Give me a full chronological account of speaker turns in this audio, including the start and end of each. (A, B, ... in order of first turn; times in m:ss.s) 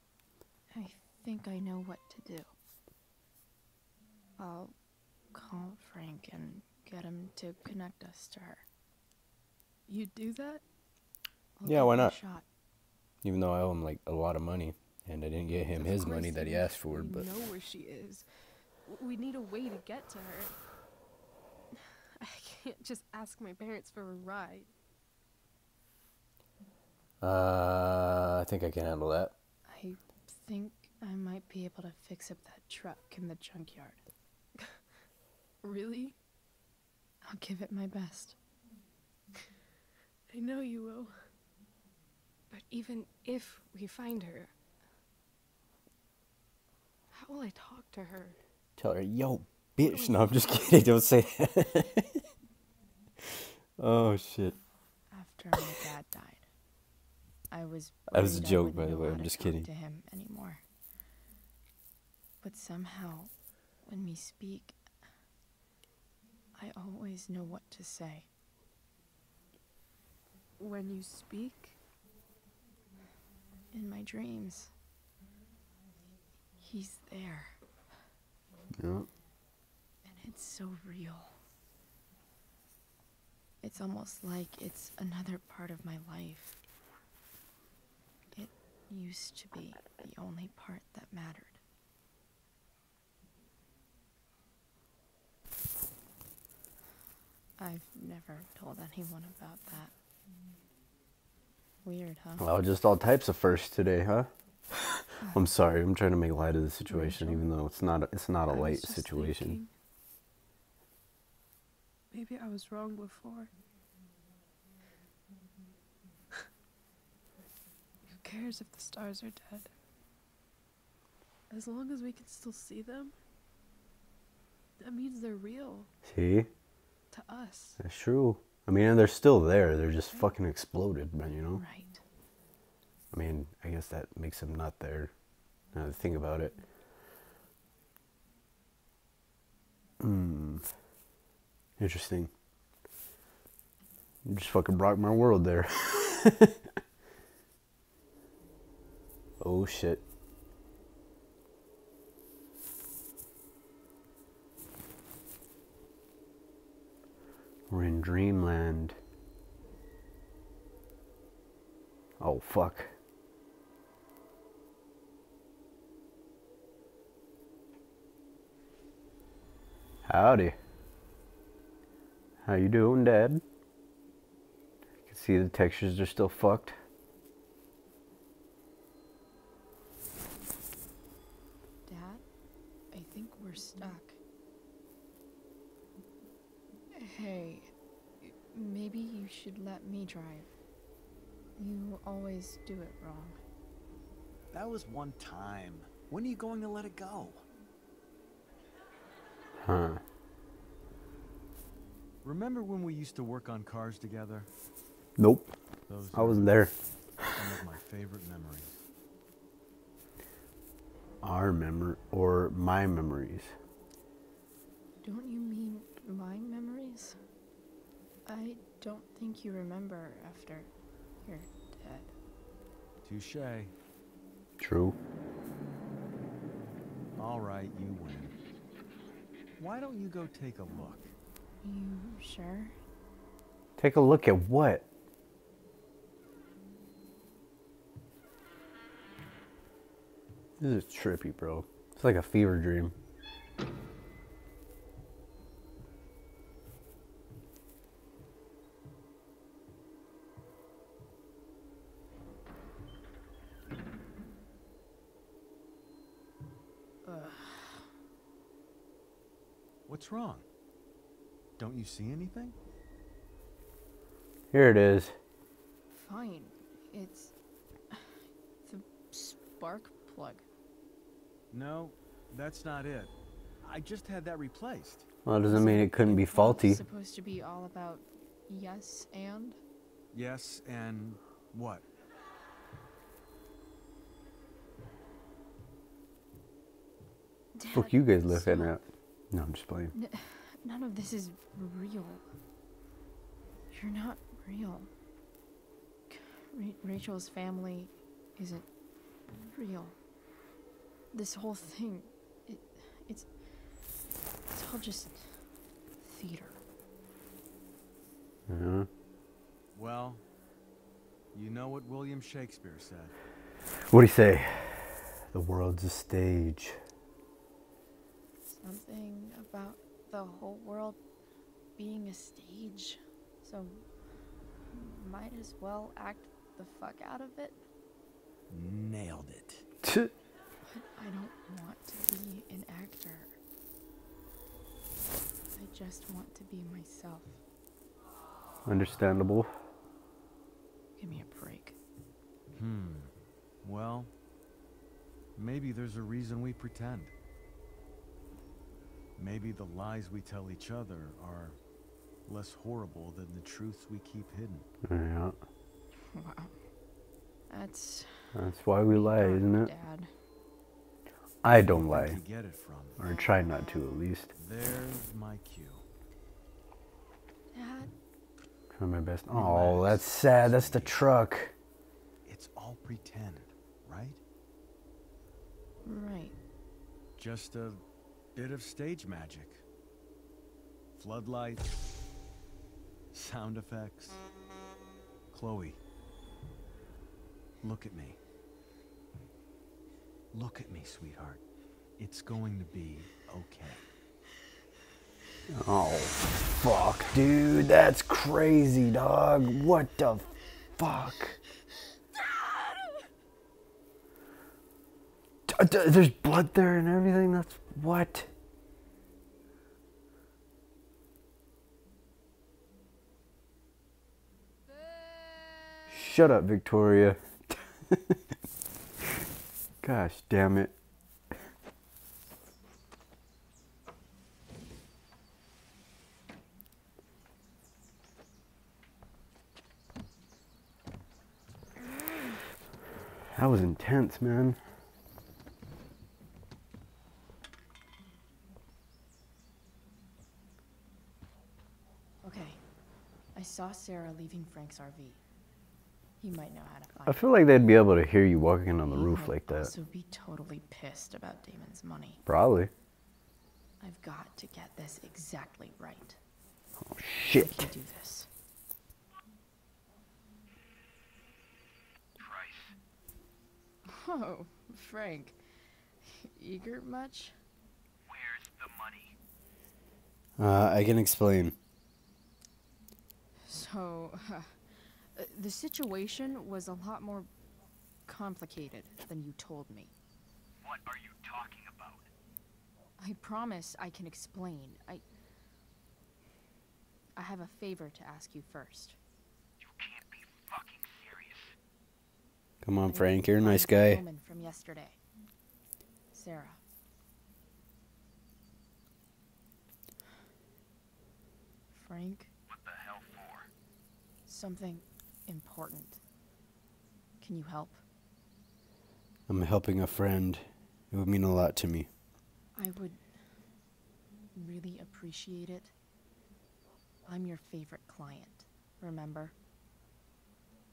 0:00.7-0:02.5 A
0:04.4-0:04.7 A
0:05.3-0:08.6 A
0:09.9-0:10.6 B
0:11.6-0:12.4 A
0:11.6-0:12.2 C
0:13.2-0:17.3 C
0:15.7-0:18.2 B
0:18.8-0:20.6 B
0:22.2-0:24.7 B
0:27.2-0:29.3 C
0:29.6-0:34.0 A
0:35.6-0:36.2 B
0:37.2-0:38.4 A
0:40.3-0:41.2 B
0:42.5-0:44.5 B
0:47.1-0:48.4 B
0:48.8-0:52.2 C
0:49.8-0:50.8 B
0:53.8-0:54.6 C
0:55.1-0:56.4 A
0:57.5-1:00.6 A
0:58.1-0:59.7 C
1:02.4-1:03.3 A
1:03.8-1:04.8 A
1:06.6-1:08.3 A
1:10.6-1:11.8 B
1:13.7-1:14.7 A
1:16.6-1:17.6 A
1:18.8-1:19.1 C
1:20.0-1:21.4 A
1:23.6-1:26.6 A
1:28.3-1:31.6 A
1:37.6-1:39.9 A
1:41.8-1:42.4 A
1:42.4-1:44.7 C
1:45.3-1:49.6 C
1:46.9-1:47.4 A
1:48.5-1:49.7 B
1:52.1-1:53.5 B
1:58.1-1:59.7 B
2:01.5-2:03.1 B
2:04.8-2:05.9 B
2:06.0-2:06.5 C
2:07.1-2:07.8 B
2:07.8-2:11.6 C
2:11.6-2:12.0 A
2:13.1-2:15.1 C
2:15.7-2:16.6 C
2:20.0-2:20.6 C
2:21.8-2:22.3 C
2:24.2-2:26.6 C
2:29.4-2:30.0 C
2:37.7-2:39.0 C
2:42.2-2:42.9 C
2:50.0-2:50.6 C
2:52.4-2:53.4 C
2:55.1-2:56.8 C
3:01.9-3:02.2 A
3:02.9-3:04.2 A
3:06.9-3:10.5 A
3:11.6-3:13.4 A
3:14.5-3:17.4 D
3:19.6-3:20.0 C
3:22.2-3:24.5 D
3:25.2-3:25.6 C
3:25.9-3:26.6 D
3:26.1-3:27.3 C
3:27.3-3:28.8 D
3:31.2-3:33.5 C
3:35.0-3:37.2 A
3:38.2-3:40.7 A
3:41.2-3:42.1 A
3:43.0-3:43.7 D
3:44.6-3:45.0 C
3:47.2-3:48.3 D
3:49.6-3:51.1 D
3:51.6-3:52.8 A
3:53.8-3:54.9 C
4:00.6-4:02.9 C
4:17.0-4:17.9 A
4:19.9-4:20.4 D
4:21.6-4:22.6 D
4:24.5-4:25.1 C
4:25.9-4:27.3 A
4:27.9-4:30.4 A
4:31.5-4:33.1 D
4:33.6-4:35.1 D
4:35.2-4:36.8 C
4:35.5-4:39.6 A
4:40.1-4:41.8 D
4:47.6-4:48.8 A
4:47.7-4:49.9 C
4:49.9-4:52.2 A
4:53.7-4:54.9 A
4:56.1-4:58.7 A
4:59.3-5:00.0 A
5:01.1-5:03.3 A
5:04.5-5:06.6 A
5:08.5-5:08.9 C
5:09.7-5:10.2 D
5:11.3-5:13.1 D
5:13.9-5:16.8 C
5:18.5-5:21.0 A
5:21.8-5:23.9 A
5:24.7-5:27.6 A
5:28.5-5:29.6 D
5:29.8-5:30.1 C
5:30.6-5:33.4 A
5:35.5-5:37.4 A
5:38.6-5:39.5 C
5:41.0-5:41.8 A
5:42.6-5:43.1 D
5:43.6-5:44.1 D
5:45.4-5:47.1 D
5:49.2-5:51.6 D
5:52.3-5:54.6 D
5:54.8-5:55.4 C
5:56.1-5:56.6 A
5:57.5-5:58.4 A
5:58.3-5:59.7 C
5:58.9-6:00.1 A
6:01.4-6:02.2 C
6:01.6-6:03.0 D
6:03.0-6:04.3 C
6:04.4-6:05.8 D
6:07.5-6:07.9 A
6:08.7-6:11.5 C
6:09.3-6:11.0 D
6:12.2-6:14.2 D
6:15.8-6:16.4 A
6:17.2-6:17.8 D
6:18.4-6:19.6 D
6:21.0-6:21.7 D
6:23.1-6:24.2 D
6:25.3-6:25.8 D
6:27.6-6:28.2 D
6:30.3-6:31.4 D
6:32.0-6:33.8 D
6:35.5-6:41.4 C
6:45.5-6:48.3 C
6:55.9-6:58.2 C
6:59.8-7:00.7 C
7:13.3-7:14.6 C
7:22.2-7:22.6 A
7:23.3-7:25.2 A
7:26.2-7:27.2 A
7:27.1-7:29.7 C
7:28.9-7:32.2 A
7:32.2-7:32.7 C
7:33.8-7:36.2 A
7:36.8-7:37.7 C
7:37.4-7:38.3 A
7:42.2-7:42.7 E
7:43.9-7:45.4 A
7:46.0-7:47.4 A
7:48.1-7:49.2 E
7:50.4-7:51.6 C
7:53.4-7:57.3 A
7:58.1-7:59.9 A
8:00.6-8:02.1 E
8:03.0-8:05.0 A
8:07.2-8:09.0 A
8:09.8-8:11.5 E
8:12.6-8:14.0 C
8:12.9-8:15.0 A
8:16.1-8:16.6 A
8:21.7-8:22.3 A
8:22.5-8:23.5 E
8:24.3-8:26.0 A
8:27.2-8:27.8 A
8:29.3-8:31.9 C
8:32.6-8:33.0 A
8:34.4-8:35.7 A
8:37.1-8:39.3 A